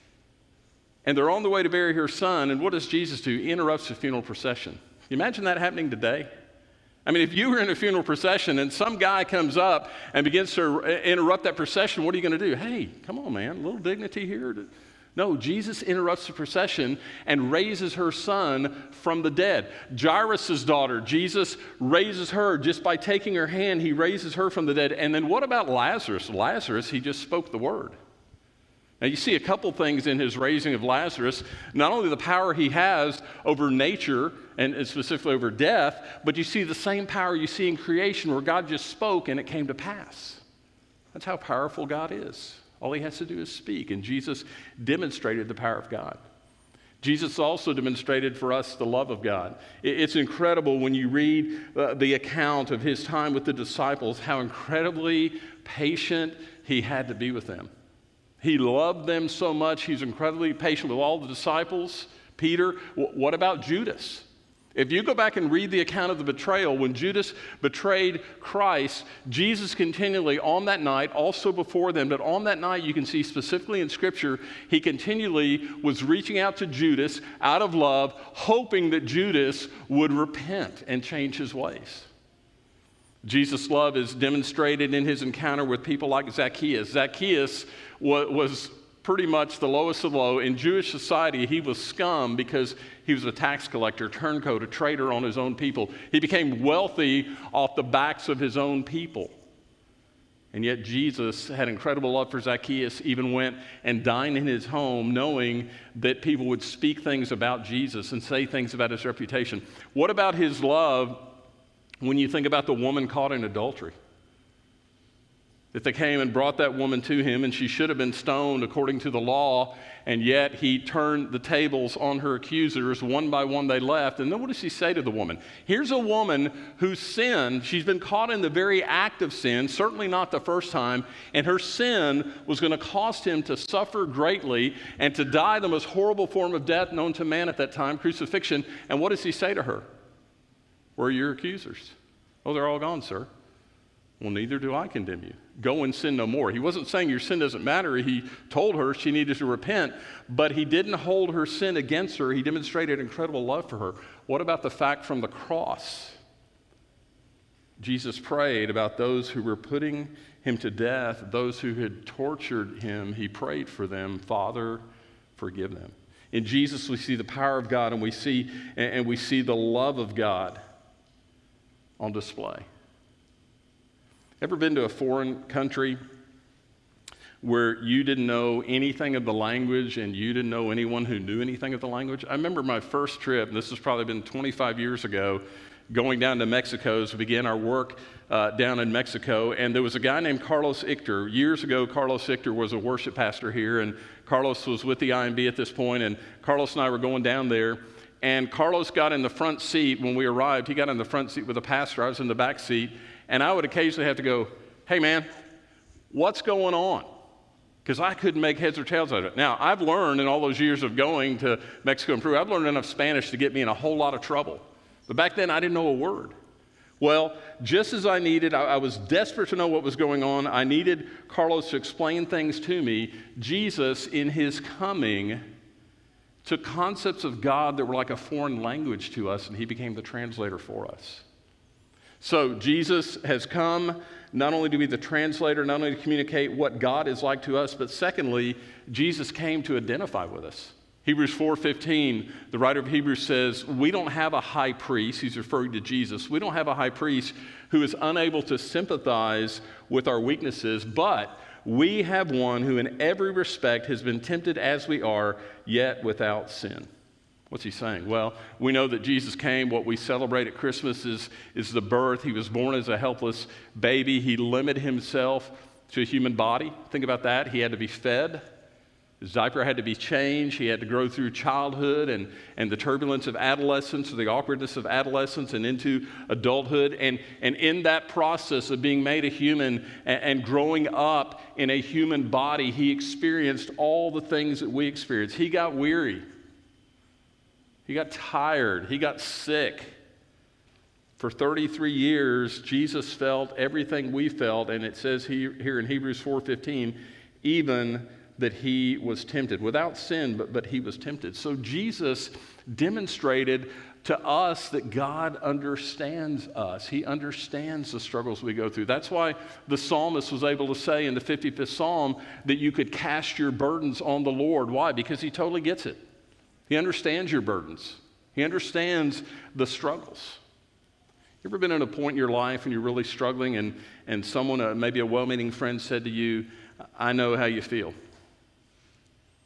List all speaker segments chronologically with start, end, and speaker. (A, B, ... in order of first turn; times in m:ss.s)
0:01.0-0:06.3 A
0:07.0-0:28.0 A
0:29.0-0:40.4 A
0:41.1-0:46.2 A
0:47.0-0:57.7 A
0:58.4-1:22.1 A
1:23.2-1:39.3 A
1:40.5-1:51.3 A
1:52.0-1:54.0 A
1:55.7-2:19.9 A
2:21.0-2:23.3 A
2:24.2-2:36.2 A
2:37.8-2:44.8 A
2:45.4-2:50.6 A
2:52.0-2:52.7 A
2:54.4-2:56.0 A
2:57.4-3:25.3 A
3:26.1-3:27.1 A
3:27.8-3:36.3 A
3:37.0-3:45.4 A
3:46.4-3:51.2 A
3:52.2-4:16.9 A
4:17.5-4:28.4 A
4:29.2-4:46.2 A
4:47.9-4:49.9 A
4:51.2-5:16.0 A
5:16.7-5:20.4 A
5:21.4-5:28.0 A